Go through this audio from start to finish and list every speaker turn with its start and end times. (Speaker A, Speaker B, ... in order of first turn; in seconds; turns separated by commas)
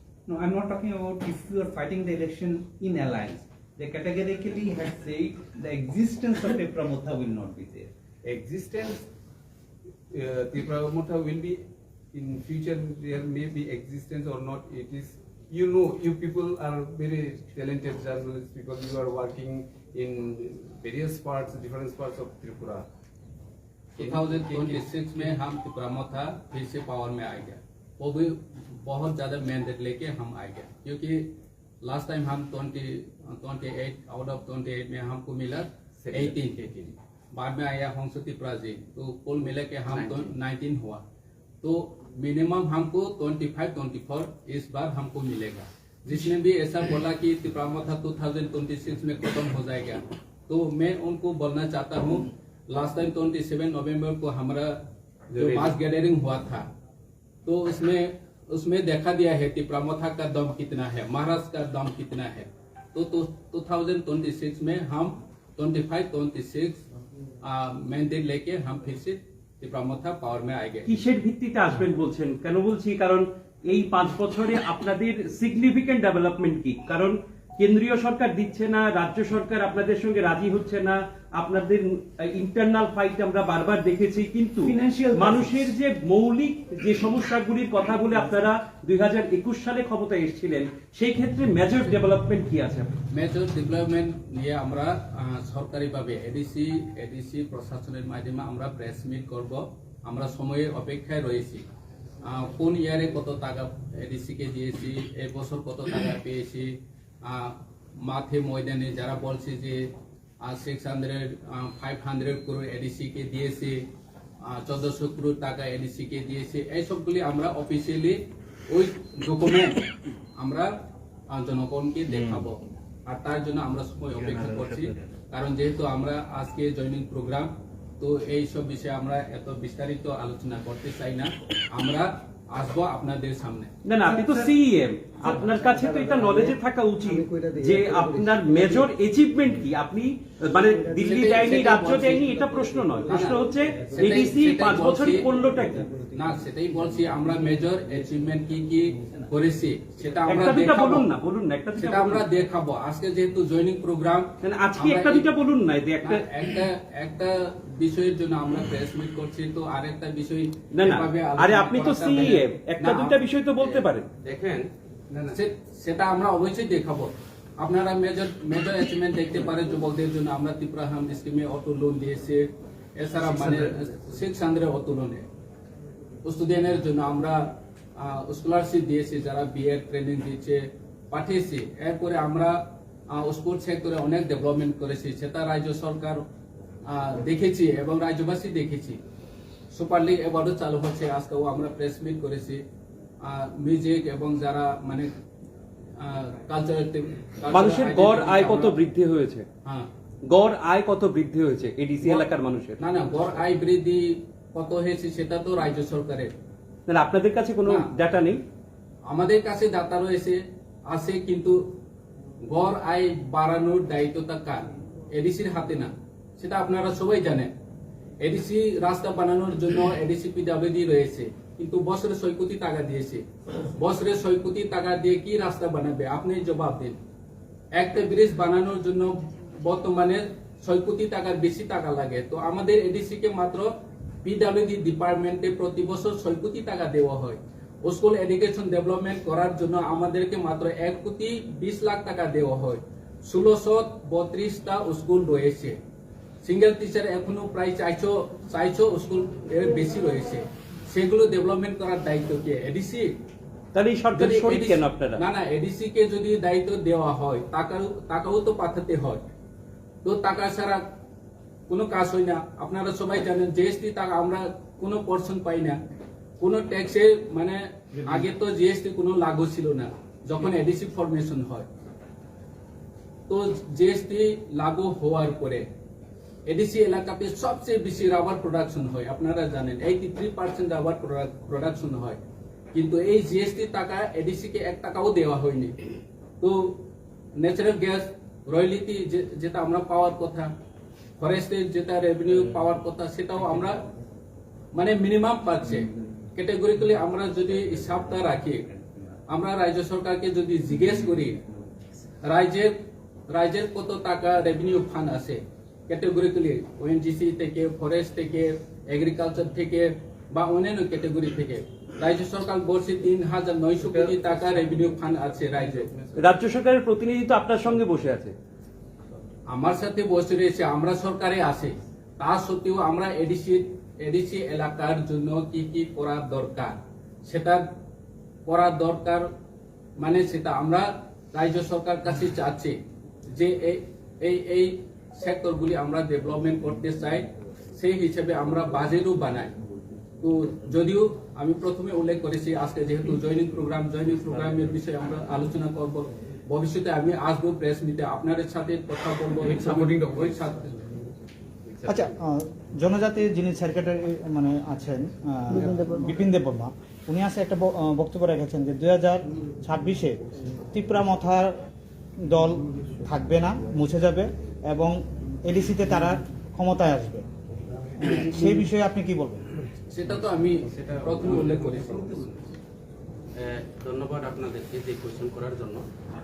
Speaker A: 0.3-7.9, Speaker B: 8.2-9.1, Speaker B: 10.1-22.9, Speaker B: 24.0-24.8, Speaker C: 24.0-31.3, Speaker C: 31.8-36.6, Speaker B: 36.0-37.0, Speaker C: 37.3-41.0, Speaker B: 39.9-40.3, Speaker C: 41.6-54.8, Speaker B: 55.3-55.8, Speaker C: 55.3-56.7, Speaker C: 57.5-66.8, Speaker C: 67.4-71.0, Speaker D: 70.8-92.9, Speaker A: 84.6-85.7, Speaker C: 93.1-101.6, Speaker C: 102.2-109.9, Speaker C: 110.4-113.8, Speaker C: 114.4-119.8, Speaker C: 120.4-120.7, Speaker C: 121.3-133.7, Speaker D: 133.8-145.9, Speaker A: 134.0-134.5, Speaker C: 140.9-145.4, Speaker C: 146.1-151.1, Speaker D: 150.2-152.2, Speaker C: 151.8-155.3, Speaker D: 154.4-156.2, Speaker C: 156.0-163.8, Speaker D: 160.7-164.1, Speaker E: 164.2-164.7, Speaker B: 165.1-165.4, Speaker C: 165.3-175.2, Speaker C: 176.2-186.2, Speaker C: 186.8-189.0, Speaker C: 189.7-192.6, Speaker C: 193.2-195.1, Speaker C: 196.0-198.8, Speaker D: 197.5-199.4, Speaker C: 199.6-199.9, Speaker D: 200.3-202.8, Speaker C: 202.8-206.3, Speaker D: 206.9-208.4, Speaker C: 207.6-207.9, Speaker C: 209.1-211.7, Speaker C: 212.4-217.5, Speaker C: 218.2-223.2, Speaker C: 223.8-227.0, Speaker C: 227.7-233.7, Speaker C: 234.2-245.8, Speaker C: 246.4-253.2, Speaker D: 253.7-255.2, Speaker C: 254.1-259.2, Speaker C: 260.0-260.8, Speaker C: 261.7-265.8, Speaker C: 266.4-271.7, Speaker C: 273.3-275.6, Speaker C: 276.4-282.2, Speaker C: 282.7-285.8, Speaker C: 286.4-286.8, Speaker C: 287.4-290.5, Speaker C: 291.2-293.8, Speaker C: 294.7-301.4, Speaker C: 302.2-315.9, Speaker B: 313.8-316.3, Speaker D: 316.2-318.3, Speaker C: 319.5-327.6, Speaker C: 328.4-329.3, Speaker C: 330.0-339.5, Speaker C: 340.2-350.9, Speaker B: 349.4-350.6, Speaker B: 351.6-352.2, Speaker F: 351.9-361.6, Speaker F: 362.2-367.2, Speaker F: 368.0-369.4, Speaker C: 369.9-372.2, Speaker E: 373.4-375.8